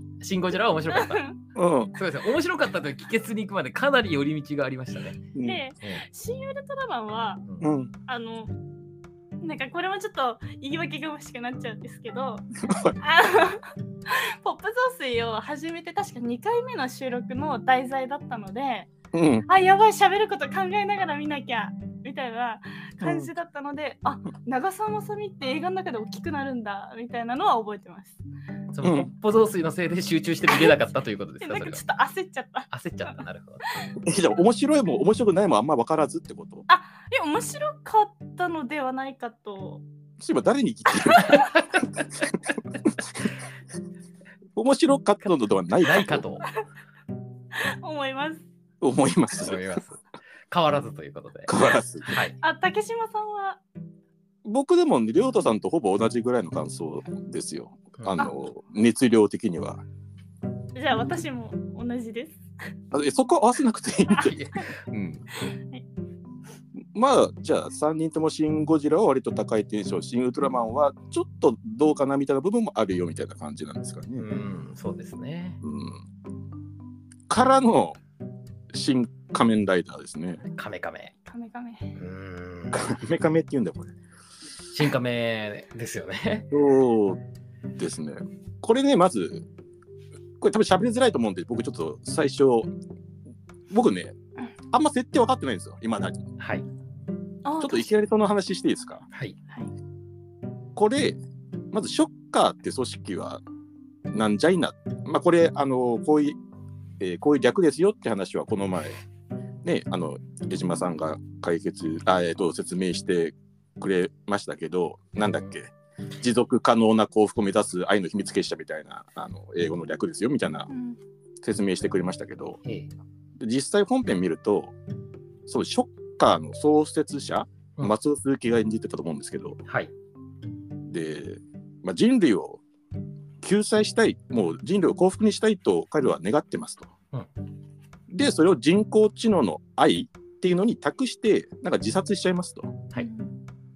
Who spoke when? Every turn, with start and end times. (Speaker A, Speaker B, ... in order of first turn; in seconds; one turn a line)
Speaker A: 0.2-1.2
Speaker B: 0.9-1.4
Speaker C: 1.6-1.9
Speaker A: 1.9-5.3
Speaker C: 5.3-5.6
Speaker B: 5.4-7.4
Speaker C: 7.6-7.9
Speaker B: 8.1-8.5
Speaker B: 9.4-12.5
Speaker C: 12.6-13.0
Speaker B: 13.0-18.9
Speaker C: 19.1-19.4
Speaker B: 19.4-28.2
Speaker C: 23.0-23.3
Speaker A: 28.7-31.9
Speaker C: 28.8-29.1
Speaker B: 31.4-33.2
Speaker A: 32.7-33.6
Speaker C: 34.0-36.6
Speaker B: 36.7-39.8
Speaker C: 40.2-42.0
Speaker C: 44.5-46.2
Speaker A: 45.8-46.5
Speaker B: 47.5-48.4
Speaker C: 48.8-49.6
Speaker A: 49.4-51.5
Speaker C: 51.5-52.2
Speaker A: 52.0-52.4
Speaker B: 52.4-53.6
Speaker C: 54.4-59.8
Speaker B: 60.7-62.4
Speaker C: 62.9-64.3
Speaker A: 64.1-64.7
Speaker C: 64.9-65.2
Speaker B: 65.4-65.8
Speaker C: 66.9-74.2
Speaker A: 74.2-75.6
Speaker C: 75.6-76.0
Speaker C: 77.3-78.0
Speaker C: 78.7-80.4
Speaker A: 80.4-81.1
Speaker B: 81.2-82.0
Speaker A: 82.0-83.0
Speaker C: 82.7-83.9
Speaker A: 84.7-86.5
Speaker C: 86.5-87.2
Speaker C: 87.8-89.5
Speaker C: 90.4-92.7
Speaker C: 93.7-94.1
Speaker C: 94.7-96.3
Speaker A: 96.4-96.7
Speaker B: 97.4-97.8
Speaker C: 97.6-99.0
Speaker C: 100.7-101.2
Speaker C: 101.7-103.4
Speaker C: 104.1-106.3
Speaker C: 107.0-109.0
Speaker C: 109.6-120.7
Speaker A: 115.2-115.5
Speaker B: 120.7-121.0
Speaker C: 121.4-122.6
Speaker A: 122.6-122.9
Speaker C: 123.4-124.7
Speaker C: 125.5-129.6
Speaker A: 129.6-129.9
Speaker C: 130.8-132.6
Speaker C: 133.4-136.9
Speaker C: 138.1-142.8
Speaker B: 142.9-143.3